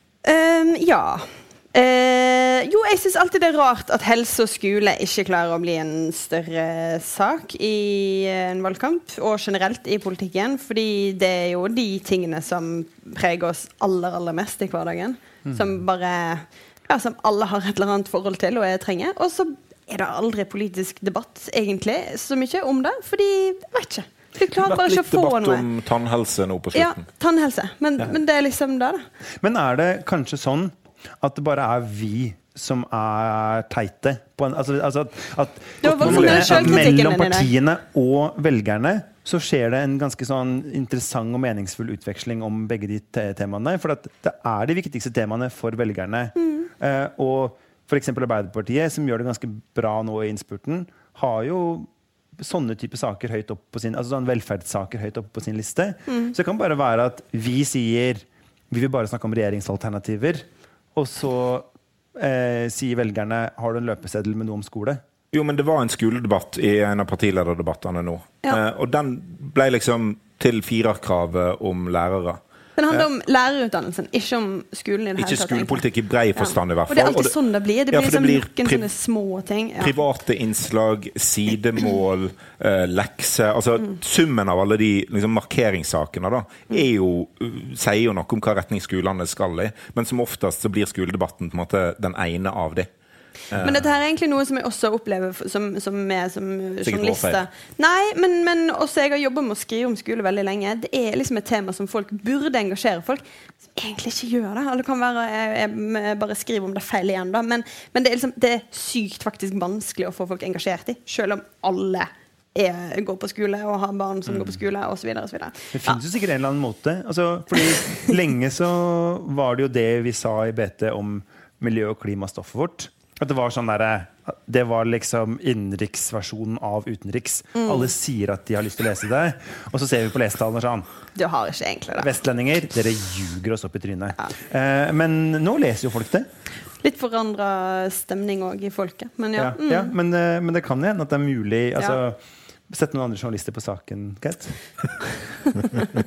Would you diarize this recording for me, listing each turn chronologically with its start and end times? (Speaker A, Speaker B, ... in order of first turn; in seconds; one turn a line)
Speaker A: 0.2-25.7
Speaker B: 24.5-27.0
Speaker A: 26.7-29.1
Speaker C: 29.4-65.0
Speaker A: 35.8-37.5
Speaker B: 35.9-36.9
Speaker A: 46.4-46.7
Speaker A: 56.1-56.3
Speaker B: 65.3-72.4
Speaker A: 72.8-80.0
Speaker B: 75.2-77.3
Speaker B: 77.9-78.9
Speaker B: 79.8-92.9
Speaker B: 93.5-93.8
Speaker A: 93.5-116.0
Speaker B: 96.8-97.4
Speaker C: 115.7-130.9
Speaker A: 127.5-127.9
Speaker A: 131.2-132.1
Speaker C: 132.0-136.3
Speaker A: 136.8-139.9
Speaker C: 139.3-145.0